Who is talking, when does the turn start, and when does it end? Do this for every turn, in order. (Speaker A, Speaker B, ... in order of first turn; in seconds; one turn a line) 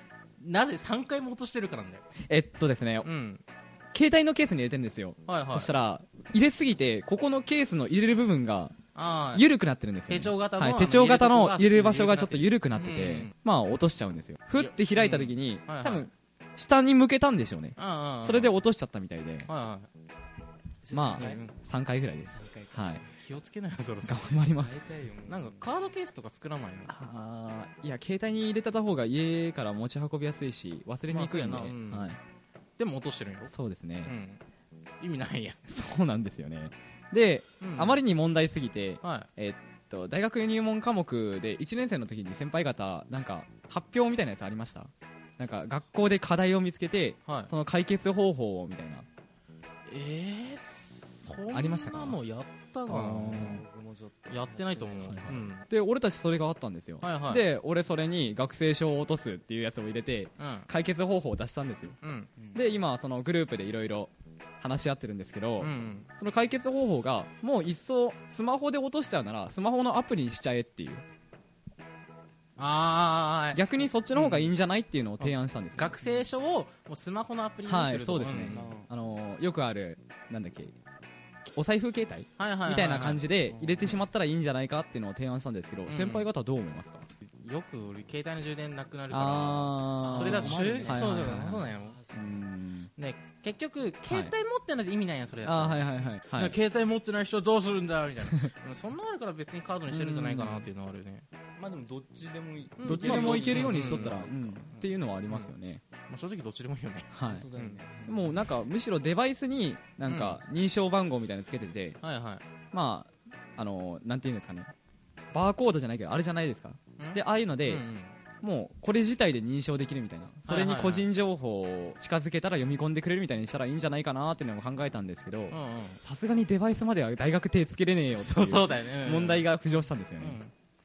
Speaker A: 0.4-2.0
Speaker B: 2.2-3.1
Speaker A: 3.0-3.4
Speaker B: 3.9-8.8
Speaker A: 5.3-5.7
Speaker A: 8.9-9.5
Speaker B: 9.3-19.5
Speaker A: 10.1-13.3
Speaker A: 14.6-16.1
Speaker A: 17.8-18.5
Speaker A: 19.5-19.9
Speaker C: 20.8-21.5
Speaker B: 20.9-23.0
Speaker A: 21.1-21.6
Speaker C: 22.2-23.1
Speaker A: 23.2-24.4
Speaker B: 24.1-24.8
Speaker C: 24.6-25.7
Speaker A: 25.3-26.9
Speaker B: 26.9-32.2
Speaker A: 31.1-32.1
Speaker A: 32.8-33.5
Speaker B: 33.5-34.1
Speaker A: 34.0-34.4
Speaker A: 35.0-35.6
Speaker B: 35.7-49.1
Speaker A: 37.6-38.0
Speaker A: 39.0-39.3
Speaker A: 47.2-47.5
Speaker A: 49.9-53.6
Speaker B: 51.5-52.2
Speaker B: 52.9-53.6
Speaker C: 53.2-55.5
Speaker A: 54.3-55.7
Speaker B: 55.0-62.0
Speaker A: 57.0-57.5
Speaker A: 60.4-60.7
Speaker A: 62.0-62.3
Speaker C: 62.4-62.8
Speaker B: 62.5-71.0
Speaker A: 65.6-66.1
Speaker A: 72.6-74.5
Speaker B: 73.5-76.0
Speaker A: 75.2-78.7
Speaker C: 76.0-76.3
Speaker B: 77.7-80.8
Speaker C: 78.5-78.9
Speaker B: 81.5-87.1
Speaker A: 82.4-83.3
Speaker C: 83.5-84.0
Speaker A: 85.9-86.3
Speaker A: 87.4-92.0
Speaker B: 89.1-92.9
Speaker C: 90.0-92.5
Speaker A: 93.0-101.2
Speaker B: 94.1-94.3
Speaker B: 95.4-96.6
Speaker B: 99.9-100.7
Speaker C: 101.6-104.9
Speaker A: 102.8-104.2
Speaker B: 102.8-105.8
Speaker A: 106.1-107.8
Speaker B: 107.1-107.5
Speaker C: 107.2-108.4
Speaker B: 108.1-112.0
Speaker A: 110.1-110.4
Speaker A: 112.0-112.4
Speaker B: 112.7-114.7
Speaker B: 115.3-117.9
Speaker A: 117.0-118.2
Speaker B: 118.4-130.4
Speaker A: 120.5-121.1
Speaker A: 125.5-126.0
Speaker A: 128.1-129.5
Speaker A: 130.2-130.5